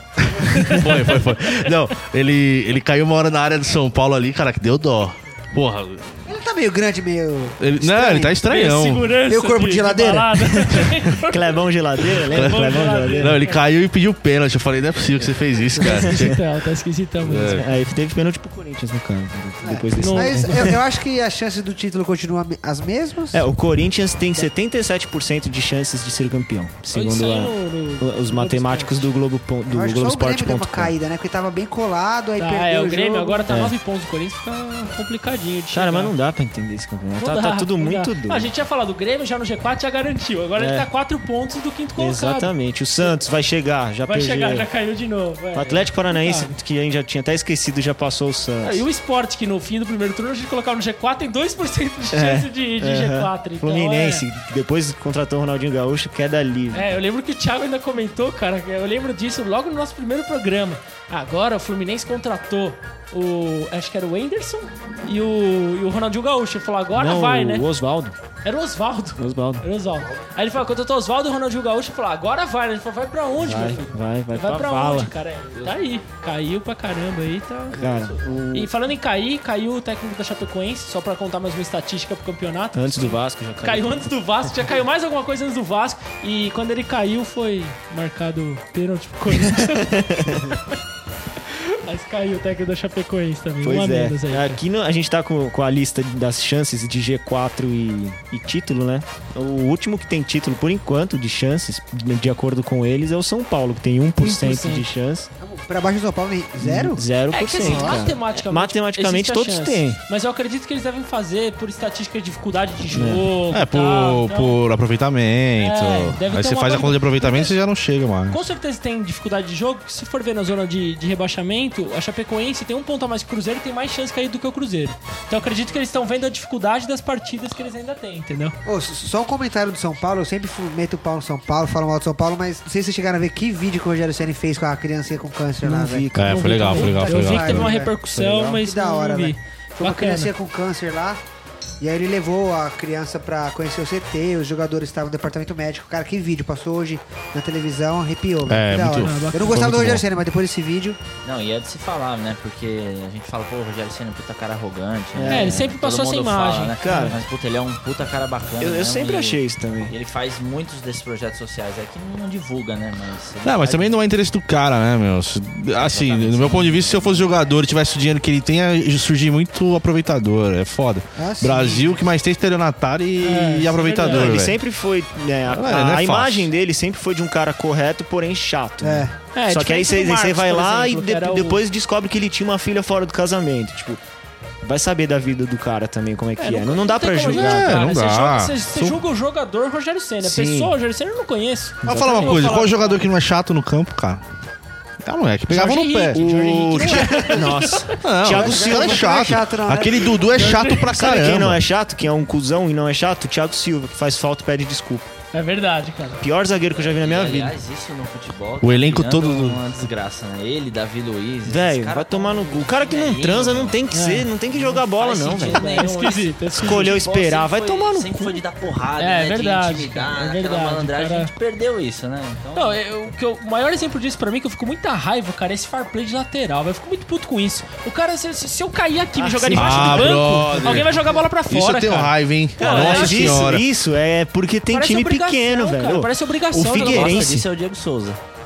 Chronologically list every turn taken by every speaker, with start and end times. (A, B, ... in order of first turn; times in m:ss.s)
0:00.2-0:06.2 A
0:00.4-0:01.7 B
0:06.3-0:08.4 C
0:07.6-0:09.2 A
0:08.4-0:13.6 B
0:09.3-0:10.9 C
0:11.2-0:13.4 D
0:12.3-0:16.4 A
0:15.8-0:17.7 B
0:15.8-0:16.3 D
0:17.2-0:17.7 A
0:17.4-0:20.8 D
0:19.6-0:23.5 C
0:20.0-0:20.7 B
0:23.3-0:30.9 D
0:26.9-0:29.1 B
0:29.7-0:33.5 C
0:32.4-0:36.1 B
0:35.7-0:38.5 D
0:37.2-0:43.2 B
0:40.6-0:40.9 D
0:42.0-0:44.7 D
0:44.1-0:46.5 B
0:45.5-0:48.8 D
0:48.6-0:54.3 B
0:52.1-0:56.9 D
0:56.7-1:07.7 B
1:07.0-1:08.2 D
1:08.4-1:17.8 B
1:09.2-1:09.7 D
1:13.4-1:15.1 D
1:17.7-1:18.7 D
1:18.5-1:30.6 B
1:22.7-1:24.0 D
1:29.4-1:30.5 D
1:31.5-1:34.6 B
1:33.6-1:45.3 D
1:44.2-1:44.9 B
1:45.4-1:47.0 C
1:46.6-1:50.0 D
1:47.3-1:54.6 B
1:47.6-1:48.1 C
1:52.9-1:53.3 D
1:53.5-1:58.4 A
1:55.6-1:57.5 B
1:58.3-2:08.6 B
2:08.7-2:16.1 C
2:15.6-2:17.2 D
2:16.1-2:17.8 A
2:16.3-2:20.3 B
2:16.8-2:21.2 C
2:21.8-2:31.0 C
2:28.4-2:30.0 A
2:29.0-2:29.6 B
2:31.2-2:44.0 E
2:35.2-2:35.7 D
2:35.3-2:37.1 B
2:36.8-2:37.2 D
2:38.6-2:39.9 D
2:43.4-2:54.6 A
2:45.8-2:47.3 E
2:51.2-2:51.9 C
2:53.2-2:54.4 B
2:54.0-3:04.0 D
2:55.5-2:56.5 A
2:58.8-2:59.1 C
2:59.3-3:01.6 B
3:04.6-3:07.8 D
3:06.4-3:13.0 B
3:07.3-3:09.0 A
3:10.2-3:10.8 D
3:11.8-3:12.5 D
3:11.9-3:14.2 A
3:15.0-3:16.2 A
3:15.5-3:18.0 B
3:16.1-3:19.3 D
3:16.8-3:17.5 C
3:18.0-3:21.6 A
3:18.3-3:20.4 C
3:20.3-3:20.9 B
3:20.7-3:25.1 D
3:25.3-3:26.2 B
3:26.2-3:27.6 D
3:26.7-3:33.8 E
3:28.6-3:29.6 A
3:31.5-3:36.0 D
3:33.9-3:34.3 B
3:34.5-3:42.8 E
3:35.4-3:37.0 B
3:36.5-3:38.4 D
3:39.0-3:41.3 B
3:42.6-3:53.5 B
3:49.2-3:50.6 D
3:49.5-3:53.6 A
3:50.3-3:50.8 E
3:52.6-3:57.5 D
3:54.7-3:57.3 B
3:56.7-3:58.2 E